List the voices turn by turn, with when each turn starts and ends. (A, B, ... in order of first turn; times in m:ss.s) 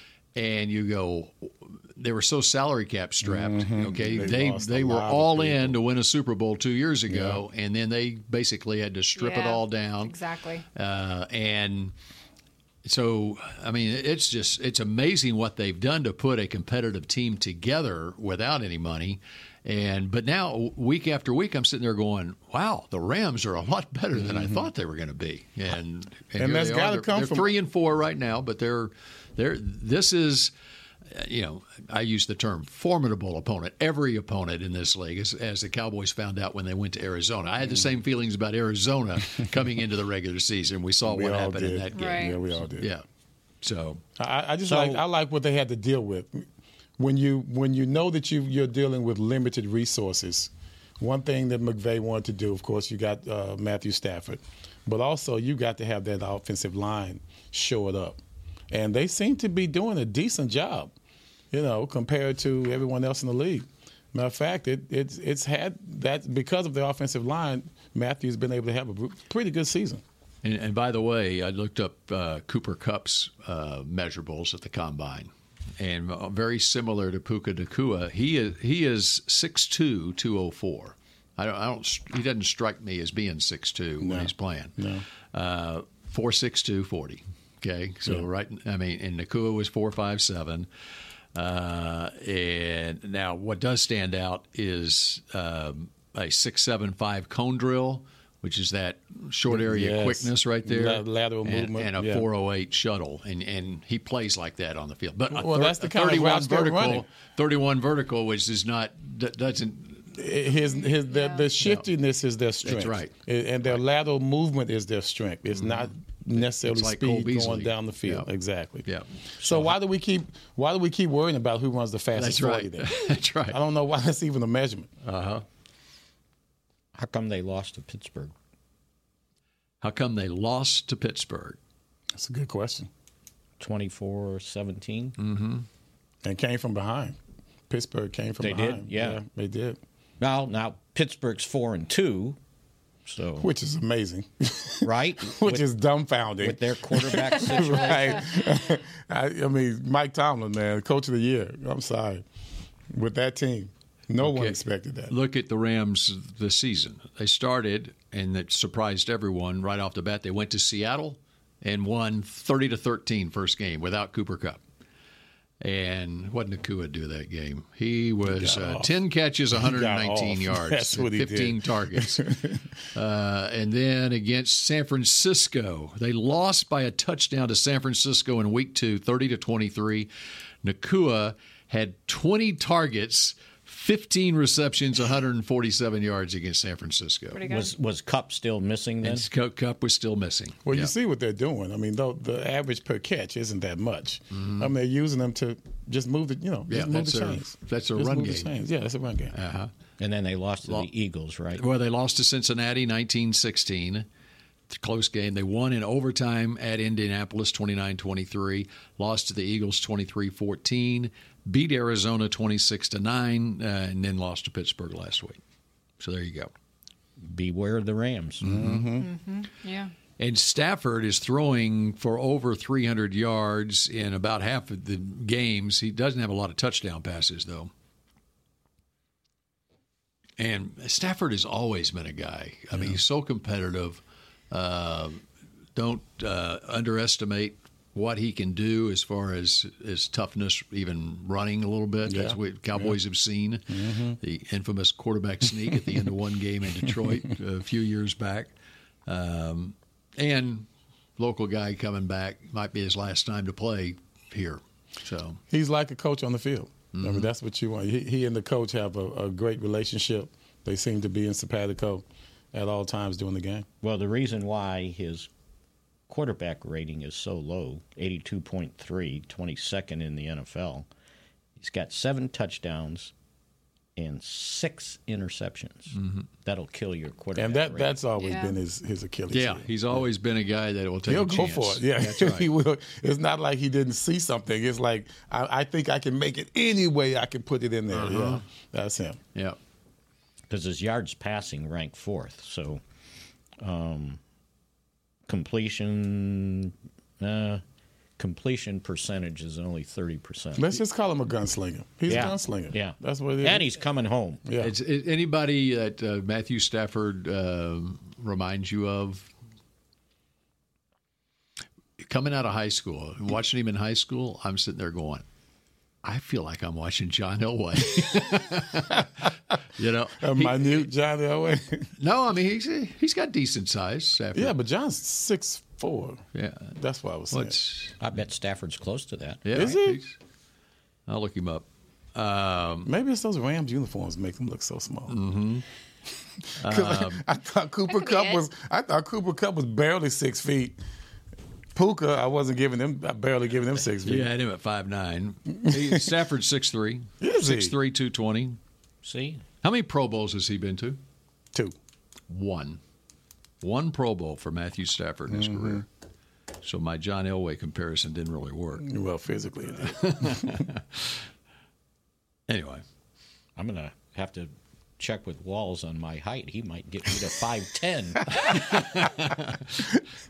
0:00.4-0:10.2 A
0:03.2-0:05.8 B
0:07.1-0:07.4 B
0:09.2-0:10.6 C
0:10.8-0:11.9 A
0:12.8-0:30.5 A
0:24.2-0:24.7 B
0:26.4-0:27.5 B
0:31.1-0:43.0 A
0:41.1-0:42.9 B
0:41.9-0:42.4 C
0:43.6-0:44.0 A
0:44.2-0:46.4 B
0:44.6-0:45.0 D
0:47.0-0:58.2 B
0:58.7-1:00.9 B
1:01.5-1:10.0 B
1:10.4-1:24.8 A
1:24.0-1:25.0 B
1:25.3-1:30.7 A
1:31.4-1:50.2 A
1:39.5-1:42.3 B
1:45.3-1:47.1 B
1:50.2-1:58.9 B
1:50.7-1:51.5 C
1:51.6-1:51.9 A
1:52.6-1:53.1 A
1:55.6-1:58.3 A
1:58.8-1:59.7 A
1:59.4-2:02.9 B
2:02.1-2:03.6 A
2:03.5-2:04.9 B
2:05.0-2:05.4 A
2:07.0-2:08.3 D
2:09.8-2:11.6 A
2:12.2-2:12.9 B
2:13.6-2:15.2 D
2:15.2-2:15.7 A
2:16.2-2:17.2 B
2:17.7-2:19.8 B
2:18.4-2:19.2 D
2:20.2-2:22.4 D
2:23.1-2:23.5 D
2:23.4-2:32.2 B
2:24.8-2:25.7 D
2:26.4-2:28.4 D
2:32.9-2:35.1 B
2:34.2-2:44.6 A
2:45.6-2:52.3 A
2:48.3-2:48.9 B
2:49.5-2:52.6 B
2:52.9-3:00.1 A
3:00.6-3:07.4 A
3:07.3-3:07.7 C
3:07.5-3:09.3 D
3:09.0-3:10.9 A
3:10.7-3:19.4 B
3:14.3-3:14.7 A
3:16.7-3:18.5 A
3:19.3-3:19.7 A
3:20.0-3:21.6 D
3:21.5-3:24.1 A
3:24.7-3:35.4 A
3:36.0-3:36.5 A
3:37.2-3:38.6 D
3:38.4-3:39.1 B
3:38.6-3:38.8 A
3:39.0-3:39.9 C
3:40.2-3:47.7 A
3:50.4-3:55.2 A
3:52.7-3:53.0 B
3:55.8-4:08.5 A
4:02.1-4:03.0 B
4:03.7-4:04.2 B
4:06.8-4:07.2 B
4:09.1-4:10.7 A
4:11.2-4:15.4 A
4:15.5-4:23.7 B
4:16.9-4:17.3 A
4:23.8-4:25.3 D
4:26.1-4:30.9 D
4:31.6-4:33.1 D
4:34.0-4:38.0 D
4:36.0-4:36.3 A
4:37.4-4:40.0 B
4:38.2-4:38.6 C
4:39.3-4:42.5 A
4:41.1-4:49.2 B
4:47.9-4:48.4 A
4:50.5-4:52.8 D
4:53.6-4:54.2 D
4:55.3-4:57.6 D
4:58.2-5:00.8 D
5:00.6-5:03.7 B
5:02.1-5:04.4 D
5:04.5-5:04.7 B
5:04.6-5:09.3 A
5:12.0-5:15.2 A
5:16.0-5:19.1 A
5:19.8-5:20.9 A
5:20.2-5:21.9 B
5:22.0-5:24.6 A
5:24.4-5:26.2 B
5:26.4-5:26.7 A
5:26.8-5:27.6 B
5:27.3-5:28.0 A
5:28.0-5:29.8 D
5:29.4-5:30.2 A
5:29.5-5:30.0 B
5:31.1-5:32.9 A
5:32.9-5:35.2 B
5:35.1-5:35.6 A
5:36.6-5:37.2 A
5:36.6-5:40.8 B
5:37.9-5:38.4 C
5:41.8-5:44.3 B
5:44.0-5:48.6 A
5:45.6-5:46.0 B
5:47.2-5:47.7 B
5:49.0-5:49.4 D
5:49.6-5:51.0 A
5:52.3-5:52.8 A
5:53.6-5:55.9 A
5:55.3-5:55.8 B
5:56.6-5:58.9 A
5:58.8-6:00.6 B
5:59.8-6:01.2 A
6:02.5-6:02.8 A
6:03.6-6:08.3 D
6:08.4-6:09.9 A